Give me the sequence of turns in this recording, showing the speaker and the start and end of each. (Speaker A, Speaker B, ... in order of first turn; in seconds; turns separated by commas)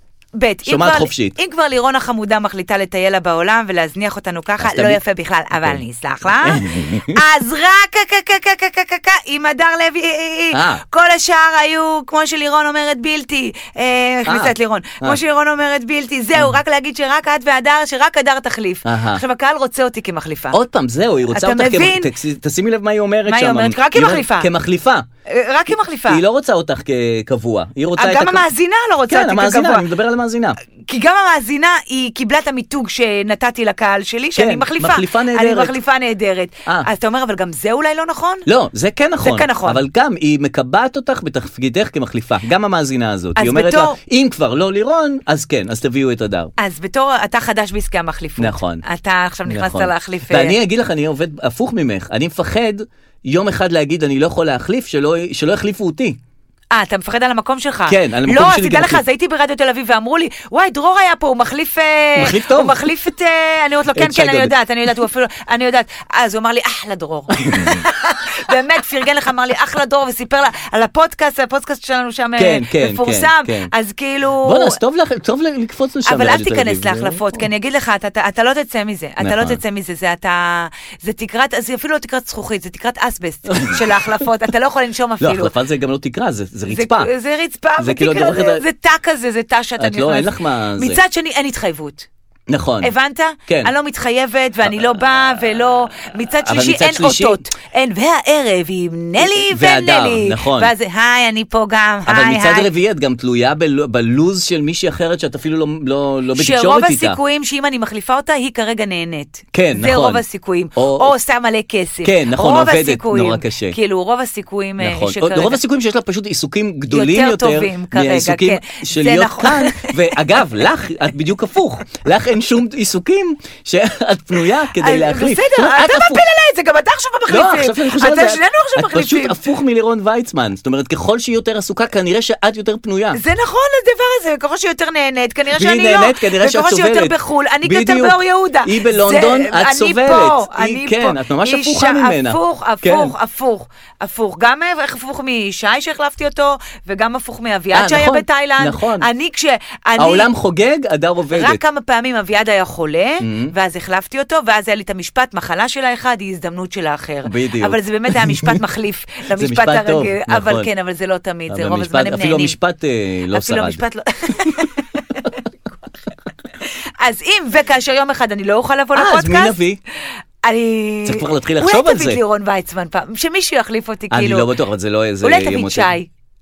Speaker A: 0.4-20.6, Speaker B: 0.7-1.4, Speaker B: 4.6-5.0, Speaker B: 5.6-7.2, Speaker B: 10.5-10.8, Speaker B: 14.3-15.2, Speaker B: 18.9-19.2, Speaker B: 20.5-25.1, Speaker A: 21.3-22.1, Speaker A: 23.3-24.5, Speaker A: 25.3-26.2, Speaker B: 26.1-28.5, Speaker A: 28.0-29.9, Speaker B: 29.1-30.6, Speaker A: 30.9-38.5, Speaker B: 34.4-35.8, Speaker B: 38.5-46.5, Speaker A: 39.2-39.8, Speaker A: 43.4-44.0, Speaker A: 46.6-50.6, Speaker B: 48.4-48.8, Speaker B: 49.5-56.2, Speaker A: 56.7-74.8, Speaker B: 57.9-59.0, Speaker B: 62.2-62.8, Speaker B: 64.0-64.5, Speaker B: 67.4-67.8, Speaker B: 72.4-73.7, Speaker B: 74.4-77.4, Speaker A: 76.1-85.5, Speaker B: 79.2-79.6, Speaker B: 83.5-84.1, Speaker B: 85.2-87.1, Speaker A: 86.7-92.1, Speaker B: 87.8-88.6, Speaker B: 89.8-91.0, Speaker B: 92.5-92.9, Speaker A: 92.8-102.7, Speaker B: 93.5-93.7, Speaker B: 94.7-95.4, Speaker B: 96.3-97.5, Speaker B: 99.2-100.7, Speaker B: 102.1-107.2, Speaker A: 106.4-115.6, Speaker B: 109.5-110.2, Speaker B: 110.8-111.1, Speaker B: 112.0-113.8, Speaker B: 114.8-126.2, Speaker A: 116.9-120.2, Speaker A: 124.8-129.4, Speaker B: 127.3-133.2, Speaker A: 133.1-150.3, Speaker B: 135.5-143.1, Speaker B: 147.7-149.1, Speaker B: 150.0-151.6, Speaker A: 151.3-162.6, Speaker B: 153.2-153.5, Speaker B: 157.2-158.6, Speaker B: 159.3-160.7, Speaker B: 161.5-163.8, Speaker A: 163.3-165.3, Speaker A: 167.0-169.6, Speaker B: 168.9-169.8, Speaker A: 170.4-174.5, Speaker B: 171.1-172.2, Speaker B: 174.1-176.0, Speaker A: 175.2-176.1